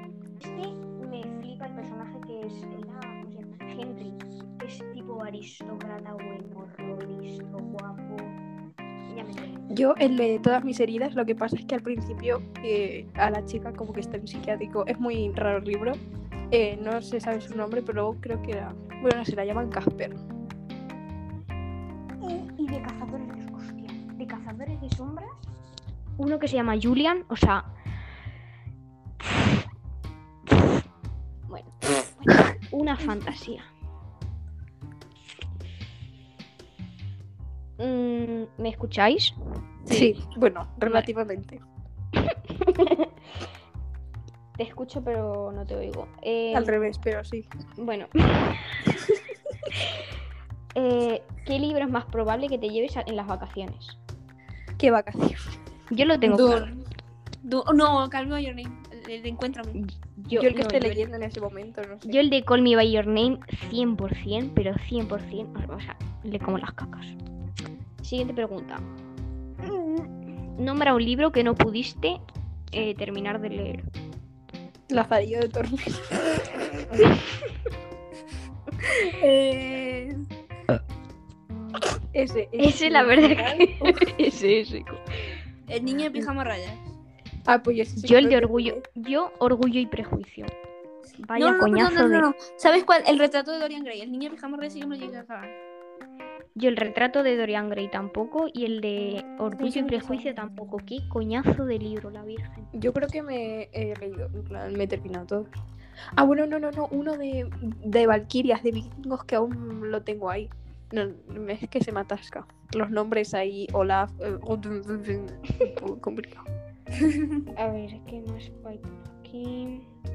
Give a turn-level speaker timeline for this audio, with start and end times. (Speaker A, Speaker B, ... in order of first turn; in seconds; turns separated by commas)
Speaker A: 0.4-8.4, Speaker A: 9.1-9.7, Speaker B: 9.7-16.0, Speaker B: 16.5-20.2, Speaker A: 22.2-25.4, Speaker A: 26.2-27.7, Speaker A: 29.2-29.5, Speaker A: 31.5-33.7, Speaker A: 37.8-39.3, Speaker C: 39.9-40.1, Speaker B: 39.9-41.6, Speaker A: 42.2-43.1, Speaker A: 44.6-46.9, Speaker B: 46.5-47.5, Speaker A: 47.8-48.9, Speaker A: 50.7-54.0, Speaker B: 54.8-55.6, Speaker A: 55.9-56.7, Speaker C: 56.2-56.8, Speaker C: 57.4-59.8, Speaker A: 59.8-61.0, Speaker B: 60.3-62.2, Speaker A: 62.0-67.2, Speaker A: 68.0-68.8, Speaker A: 69.6-72.2, Speaker A: 72.7-73.8, Speaker B: 74.9-77.1, Speaker C: 78.9-80.2, Speaker B: 82.1-84.2, Speaker A: 82.6-85.3, Speaker C: 85.7-86.9, Speaker B: 87.5-88.8, Speaker A: 88.0-90.5, Speaker A: 91.2-92.3, Speaker C: 91.3-95.5, Speaker A: 96.5-102.7, Speaker B: 99.6-100.2, Speaker B: 102.7-105.5, Speaker B: 106.2-116.5, Speaker A: 117.5-119.9